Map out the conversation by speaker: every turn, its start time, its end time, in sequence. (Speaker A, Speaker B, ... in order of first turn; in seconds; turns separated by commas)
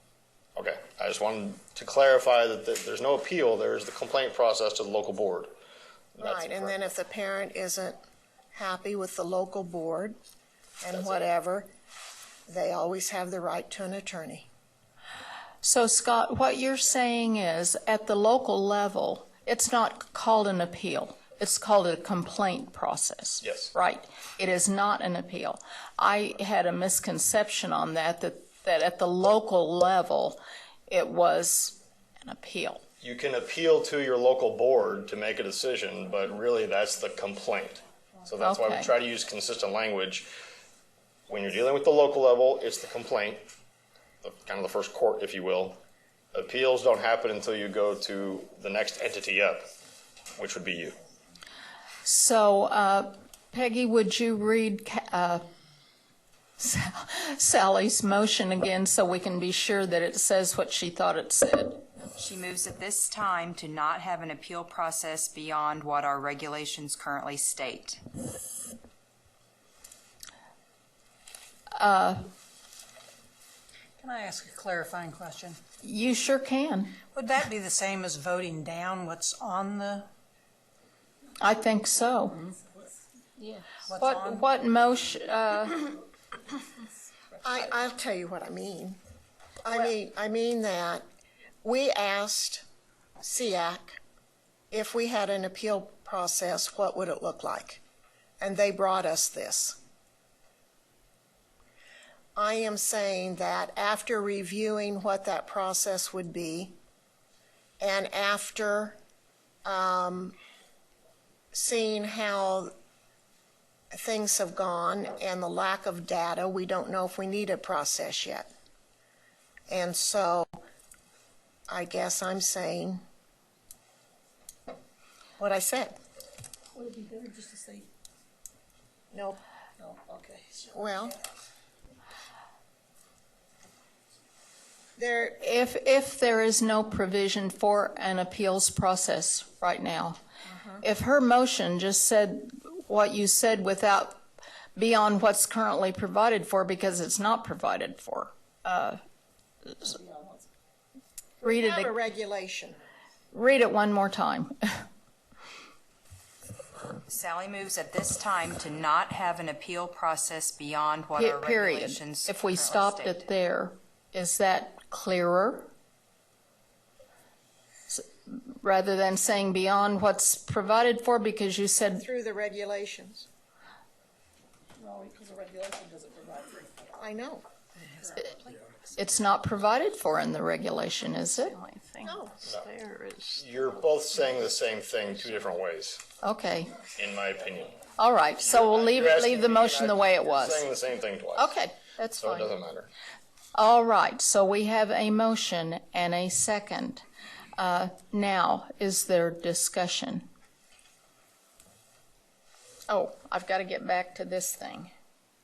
Speaker A: 0.6-5.5, Speaker A: 6.2-6.8, Speaker B: 6.2-8.0, Speaker B: 8.5-10.2, Speaker B: 10.8-11.7, Speaker A: 10.9-11.2, Speaker B: 12.5-14.5, Speaker C: 15.6-32.8, Speaker A: 23.4-23.7, Speaker A: 33.0-40.3, Speaker C: 38.4-38.9, Speaker A: 41.3-43.5, Speaker A: 44.2-45.8, Speaker A: 46.3-49.7, Speaker A: 50.4-51.0, Speaker C: 52.0-55.4, Speaker C: 56.6-61.8, Speaker D: 62.2-68.0, Speaker C: 71.8-72.3, Speaker E: 74.0-75.6, Speaker C: 75.8-77.0, Speaker E: 77.1-80.1, Speaker C: 81.4-82.5, Speaker D: 83.4-83.7, Speaker E: 83.9-84.5, Speaker C: 83.9-85.9, Speaker B: 87.4-89.0, Speaker B: 89.6-91.0, Speaker B: 91.6-92.7, Speaker B: 93.2-94.0, Speaker B: 94.7-97.8, Speaker B: 98.4-99.8, Speaker B: 102.4-106.8, Speaker B: 107.8-109.0, Speaker B: 109.7-110.4, Speaker B: 111.5-112.7, Speaker B: 113.9-118.5, Speaker B: 119.7-120.6, Speaker B: 121.7-123.0, Speaker B: 125.4-126.0, Speaker F: 126.8-127.9, Speaker B: 129.1-129.4, Speaker F: 129.8-130.6, Speaker B: 130.7-131.2, Speaker B: 135.0-135.4, Speaker C: 135.4-140.2, Speaker C: 140.8-144.2, Speaker C: 144.8-149.0, Speaker F: 150.0-150.4, Speaker B: 151.4-152.8, Speaker C: 151.4-151.9, Speaker C: 153.3-154.8, Speaker D: 157.1-163.2, Speaker C: 161.1-165.7, Speaker C: 167.9-172.0, Speaker B: 171.9-173.3, Speaker F: 174.8-176.6, Speaker E: 176.2-176.8, Speaker B: 176.9-177.4, Speaker C: 178.9-181.6, Speaker D: 181.5-183.4, Speaker B: 182.0-182.3, Speaker A: 183.3-186.0, Speaker C: 186.2-186.8, Speaker A: 186.9-187.8, Speaker C: 187.9-190.7, Speaker A: 188.4-191.6, Speaker C: 191.4-192.5, Speaker A: 192.2-192.9, Speaker C: 193.5-197.0, Speaker C: 197.6-200.2, Speaker C: 202.9-204.9